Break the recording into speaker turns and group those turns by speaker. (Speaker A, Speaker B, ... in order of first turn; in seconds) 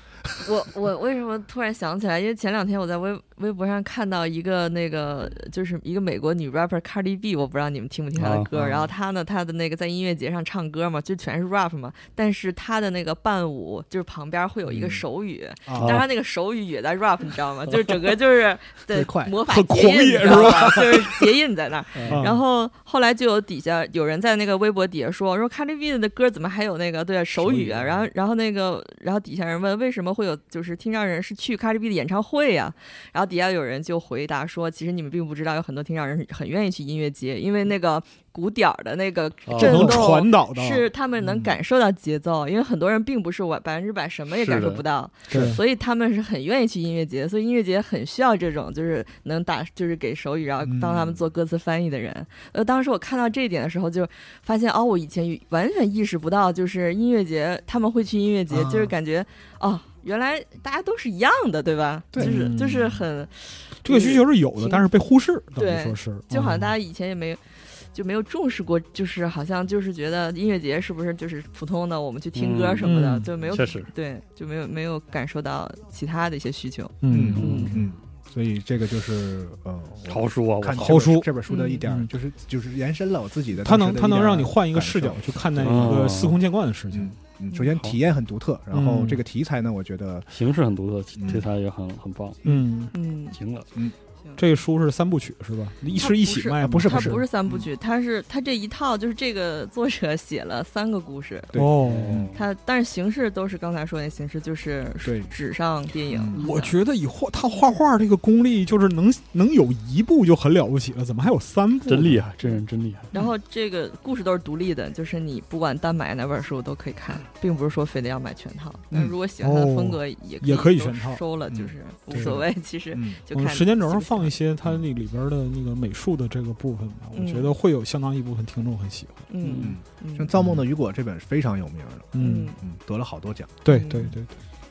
Speaker A: 0.4-64.8, 65.5-77.8, 81.5-81.8, 92.9-93.4, 96.0-101.6, 102.3-106.7, 113.1-124.3, 127.1-127.5, 129.3-130.3, 132.2-132.6, 133.7-134.2
Speaker B: 8.2-8.5, 15.7-16.0, 21.9-22.2, 39.5-40.1, 44.4-44.8, 72.3-73.9, 77.3-77.8, 80.1-81.1, 85.6-86.4, 87.7-88.0, 90.3-92.4, 93.3-93.7, 101.8-102.4, 111.9-113.1, 129.4-129.8
Speaker C: 8.5-8.9, 14.7-15.0, 15.7-16.0, 18.9-19.4, 20.3-20.8, 41.2-41.5, 45.3-45.6, 50.6-51.2, 58.5-58.9, 77.1-86.2, 86.9-90.3, 91.2-91.5, 96.6-97.7, 101.5-102.3, 105.0-105.3, 106.1-106.4, 118.9-119.2, 121.5-123.2, 129.6-133.6
Speaker D: 19.4-21.2, 22.0-22.4, 39.6-40.9, 45.3-45.6, 62.2-63.0, 63.8-66.7, 72.8-73.3, 77.0-77.8, 80.7-82.1, 83.6-87.1, 88.7-89.2, 92.4-92.9, 94.4-97.2, 101.5-102.3, 106.3-112.3, 119.4-121.2, 122.1-122.4, 123.3-129.3, 130.3-130.6, 132.1-132.5, 133.6-134.3